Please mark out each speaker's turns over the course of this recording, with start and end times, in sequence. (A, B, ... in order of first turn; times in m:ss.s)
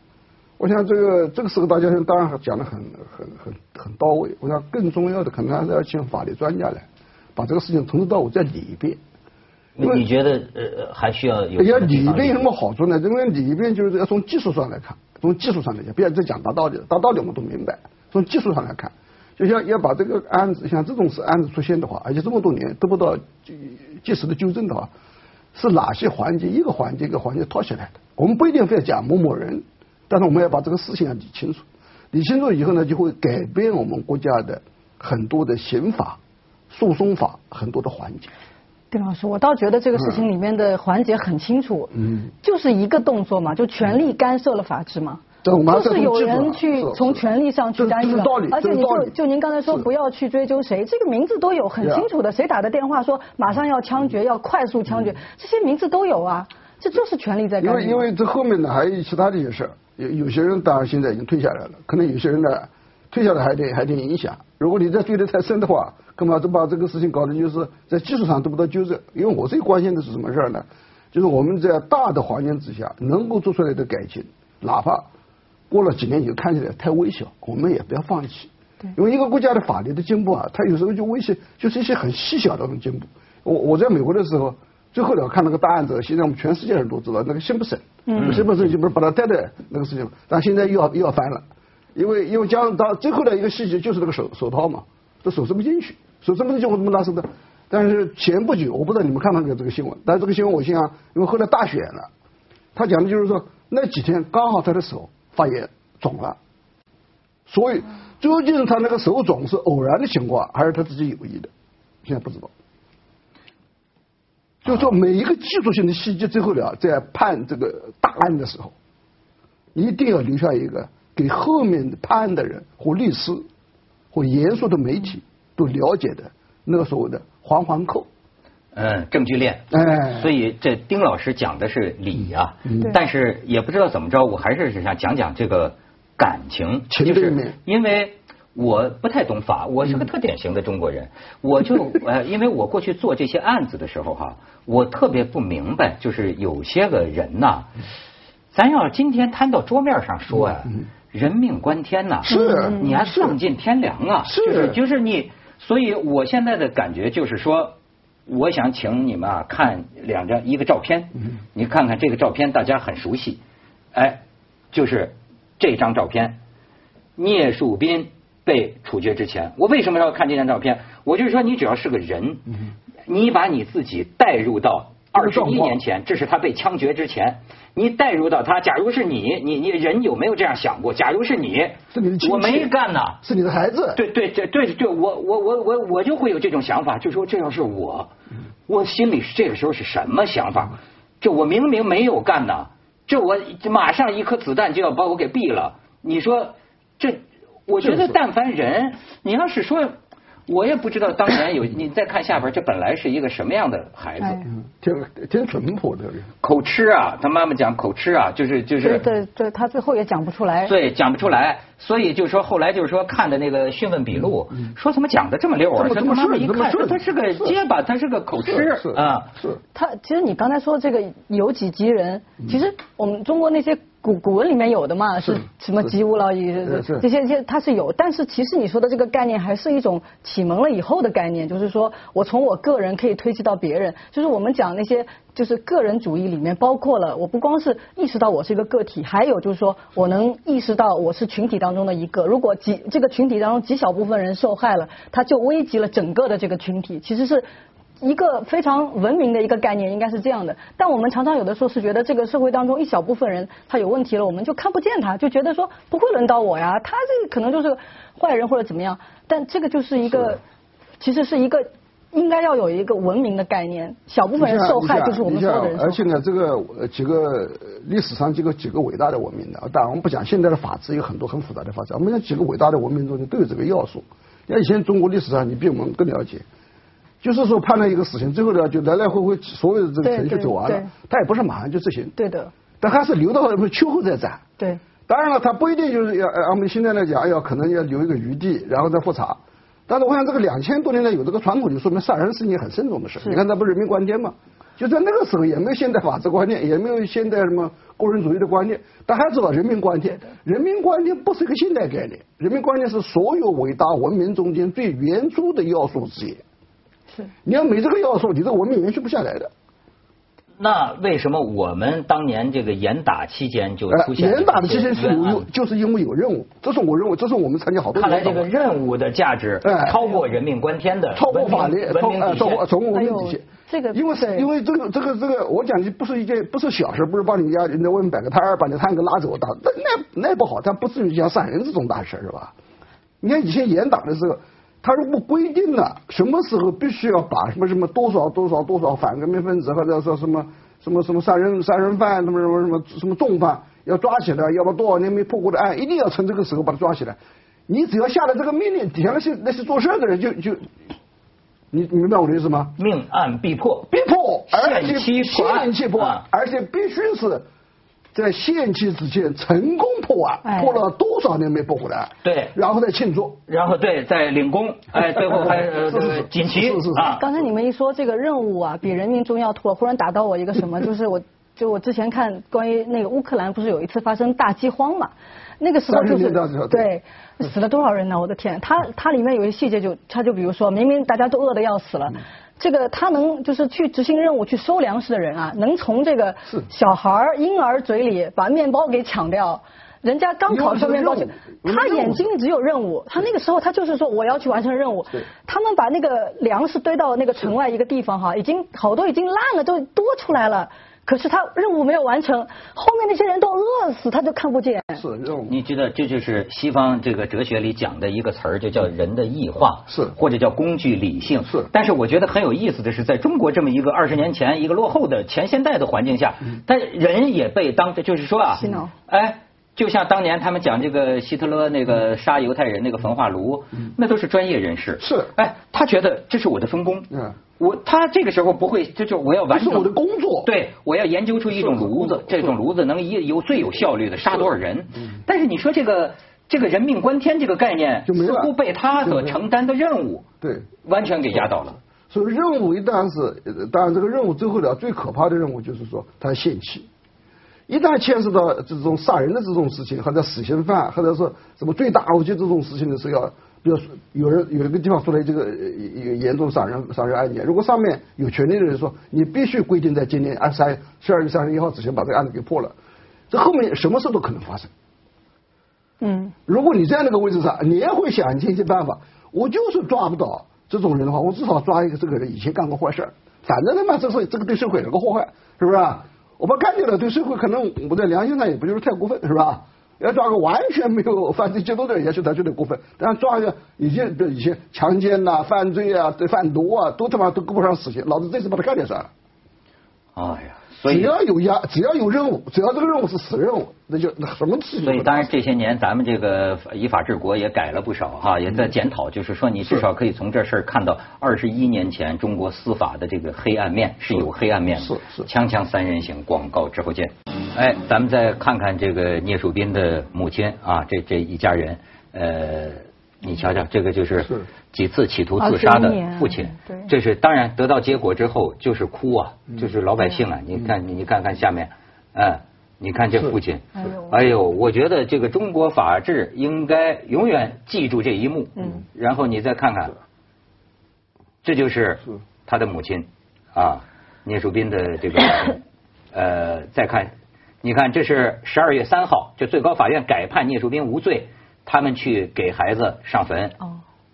0:00.6-0:09.0 A
0:09.8-0:12.5 B
0:11.6-0:24.9 A
0:25.5-0:36.2 A
0:36.7-0:38.3 A
0:38.9-0:58.0 C
0:40.0-0:40.2 A
0:45.4-0:47.2 A
0:47.8-0:49.1 A
0:51.8-0:52.1 A
0:57.6-1:15.1 A
1:15.7-1:31.4 A
1:28.1-1:28.4 C
1:31.9-1:42.1 A
1:42.7-1:46.4 A
1:47.5-1:51.5 A
1:52.0-1:52.5 A
1:54.6-1:58.7 A
1:59.7-2:03.4 A
2:04.1-2:08.1 A
2:08.7-2:27.7 B
2:09.7-2:10.3 A
2:16.9-2:17.5 A
2:28.5-2:37.7 B
2:32.2-2:33.4 A
2:32.3-2:32.8 C
2:34.2-2:34.8 A
2:38.3-2:43.4 B
2:43.9-2:46.4 B
2:47.2-2:52.4 B
2:53.1-3:03.2 B
2:55.1-2:55.8 A
3:01.9-3:02.7 A
3:03.2-3:04.0 A
3:03.9-3:08.1 B
3:08.7-3:20.0 B
3:17.8-3:18.1 A
3:20.5-3:24.5 B
3:24.8-3:26.3 A
3:26.4-3:29.0 B
3:28.8-3:30.7 C
3:30.6-3:39.3 B
3:35.7-3:37.5 A
3:38.5-3:39.6 A
3:39.7-4:07.5 C
3:46.6-3:47.0 A
4:08.0-4:20.4 C
4:21.0-4:26.0 C
4:24.4-4:36.4 A
4:37.2-4:42.1 A
4:40.0-4:40.9 C
4:42.2-4:42.5 C
4:42.8-4:44.4 A
4:45.1-5:06.4 A
5:07.4-5:09.5 A
5:10.6-5:15.5 B
5:13.9-5:18.5 A
5:17.9-5:22.6 B
5:19.6-5:20.0 A
5:21.1-5:32.5 A
5:22.9-5:24.5 C
5:33.2-5:50.7 A
5:51.7-5:52.7 A
5:52.8-5:53.9 B
5:53.9-5:57.4 A
5:54.5-5:56.2 B
5:58.1-6:03.4 A
6:00.4-6:00.8 C
6:02.2-6:02.6 B
6:03.5-6:07.2 B
6:05.9-6:07.2 A
6:07.1-6:45.0 C
6:15.9-6:16.9 A
6:30.5-6:32.3 A
6:45.0-6:45.5 A
6:45.5-7:09.9 B
6:49.9-6:50.1 A
6:58.6-6:58.9 C
7:05.0-7:05.3 A
7:09.5-7:10.5 A
7:10.4-7:20.2 B
7:11.7-7:12.3 A
7:18.0-7:19.4 A
7:20.4-7:20.7 A
7:20.8-7:21.8 B
7:22.1-7:26.9 A
7:27.7-7:42.7 A
7:43.3-7:44.7 A
7:46.0-7:46.3 C
7:46.5-8:09.1 A
8:10.1-8:11.1 B
8:10.8-8:15.3 A
8:14.8-8:49.9 B
8:24.8-8:25.3 A
8:35.4-8:36.9 C
8:43.8-8:44.2 C
8:48.6-8:48.8 C
8:51.4-8:55.6 B
8:56.1-9:03.6 B